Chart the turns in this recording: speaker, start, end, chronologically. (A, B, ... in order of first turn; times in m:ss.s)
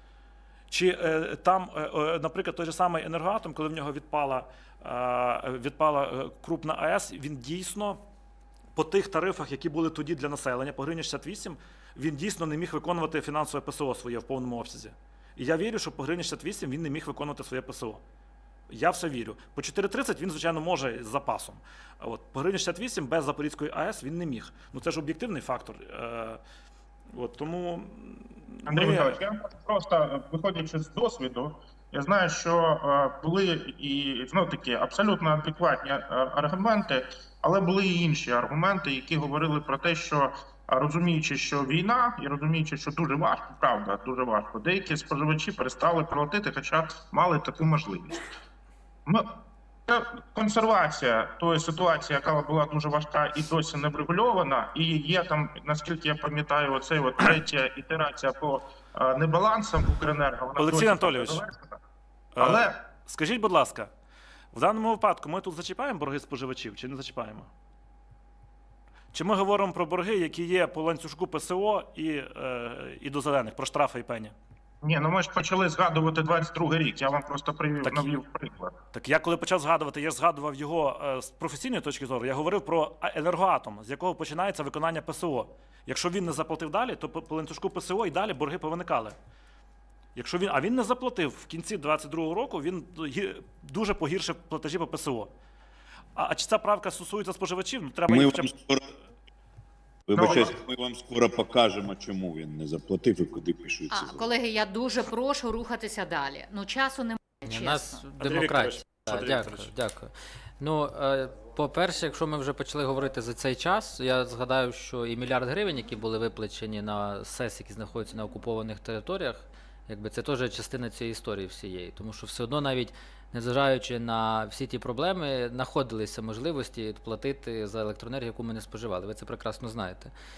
0:00.7-0:08.0 A
0:08.8-0:18.0 A
0:18.7-0:26.4 A
0:27.1-0:29.2 A
0:28.7-0:48.2 B
0:49.9-1:01.8 B
1:00.6-1:01.4 A
1:02.4-1:03.9 A
1:02.4-1:02.7 B
1:04.5-1:07.5 A
1:09.1-1:14.3 A
1:14.8-1:18.7 B
1:17.8-1:18.2 A
1:18.9-1:29.2 A
1:30.1-1:35.3 A
1:36.2-1:38.5 A
1:38.1-1:38.8 C
1:40.1-1:44.3 C
1:40.1-1:40.5 B
1:43.9-1:48.0 D
1:47.5-2:10.1 E
1:48.2-1:49.7 A